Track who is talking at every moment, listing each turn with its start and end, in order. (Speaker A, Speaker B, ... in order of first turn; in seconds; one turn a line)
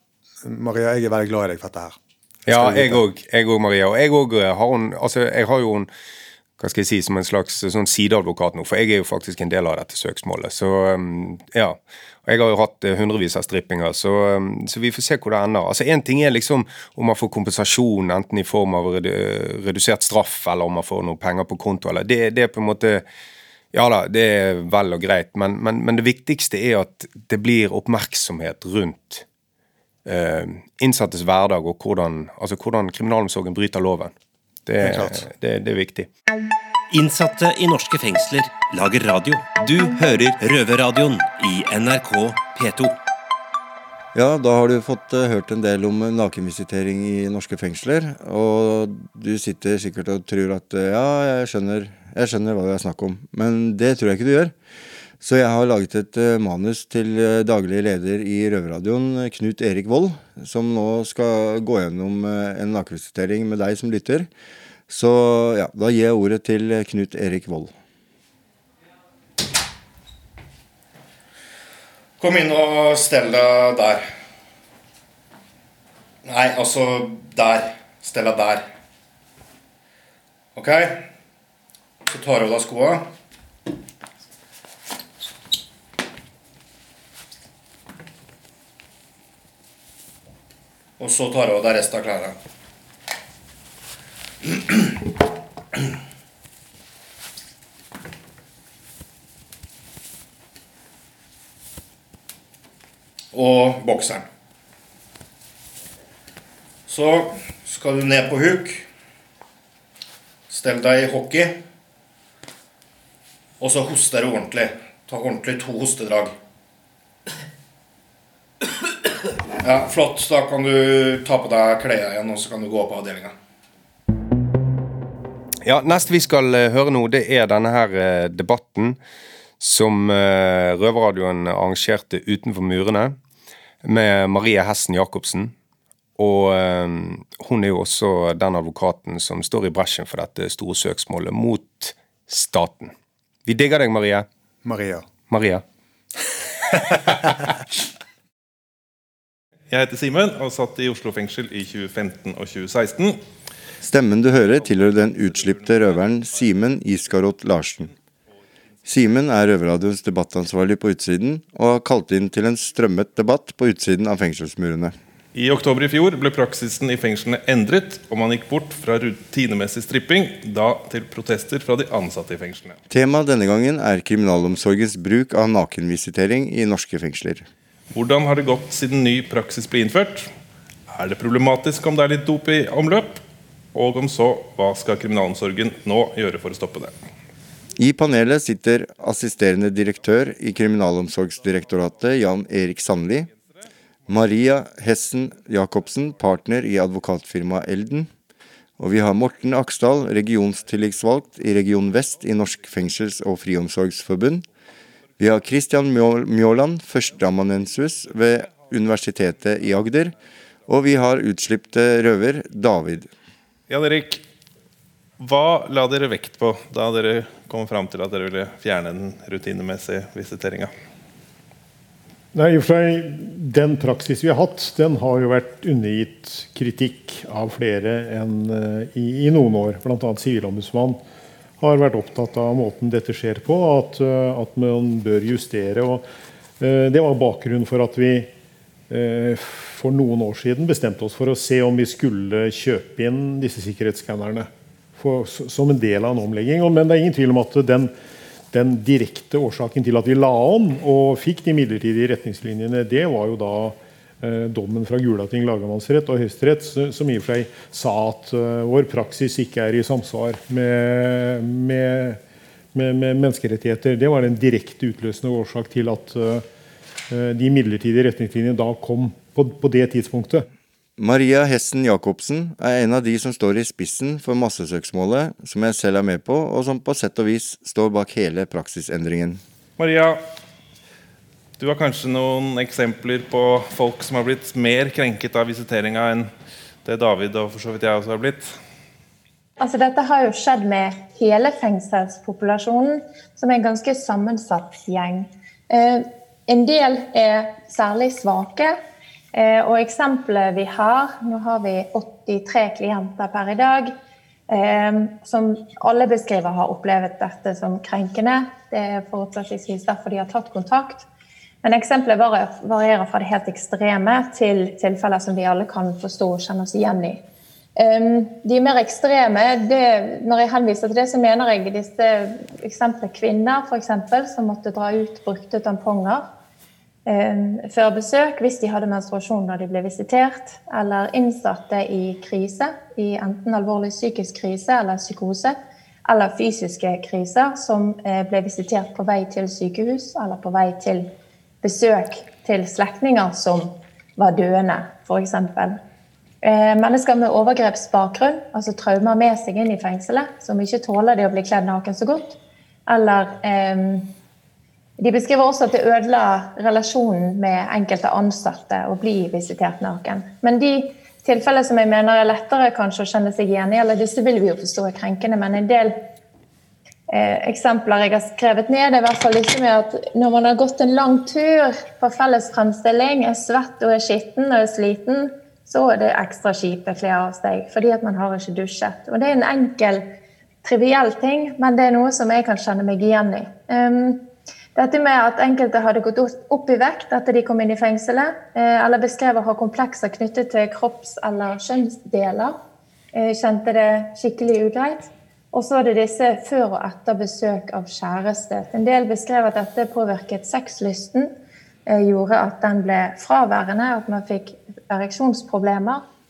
Speaker A: 0.4-3.0
Speaker B: 2.5-5.9
Speaker B: 6.6-23.1
Speaker B: 23.7-29.2
Speaker B: 30.1-34.1
Speaker B: 34.7-36.1
Speaker A: 34.8-35.2
Speaker C: 36.9-43.0
Speaker D: 44.1-54.5
Speaker D: 55.2-64.3
Speaker D: 64.9-67.7
Speaker E: 72.2-74.1
Speaker E: 76.2-78.7
Speaker E: 80.5-81.1
Speaker E: 82.1-83.1
Speaker E: 91.0-92.4
Speaker E: 103.3-104.2
Speaker E: 106.9-108.9
Speaker E: 110.5-111.6
Speaker E: 113.6-116.3
Speaker E: 119.6-123.3
Speaker B: 125.6-129.0
Speaker B: 129.6-133.2
Speaker B: 133.8-135.5
Speaker B: 136.2-142.9
Speaker B: 143.5-144.3
Speaker A: 144.6-145.1
Speaker B: 145.3-145.6
Speaker A: 146.7-147.2
Speaker F: 149.7-153.2
Speaker D: 153.8-157.9
Speaker D: 158.8-164.9
Speaker F: 165.3-172.8
Speaker D: 172.9-177.5
Speaker F: 177.9-180.3
Speaker F: 180.9-183.2
Speaker F: 183.7-187.0
Speaker D: 187.8-193.3
Speaker D: 194.1-198.1
Speaker D: 198.8-204.5
Speaker D: 205.2-210.2
Speaker D: 210.7-213.1
Speaker F: 213.7-214.2
Speaker F: 215.2-220.7
Speaker G: 222.3-231.0
Speaker G: 231.6-236.0
Speaker G: 236.6-238.3
Speaker G: 238.9-247.9
Speaker G: 248.5-262.2
Speaker G: 262.7-266.4
Speaker G: 267.1-270.5
Speaker D: 271.0-279.4
Speaker F: 279.8-280.2
Speaker F: 281.6-286.3
Speaker F: 286.9-288.6
Speaker H: 289.6-298.8
Speaker H: 299.3-303.9
Speaker H: 304.5-311.1
Speaker H: 311.6-317.2
Speaker H: 317.8-326.3
Speaker H: 327.1-341.1
Speaker H: 341.6-345.8
Speaker H: 346.4-354.1
Speaker H: 355.0-366.0
Speaker H: 367.1-380.1
Speaker H: 380.6-392.6
Speaker H: 393.1-401.3
Speaker H: 401.9-406.0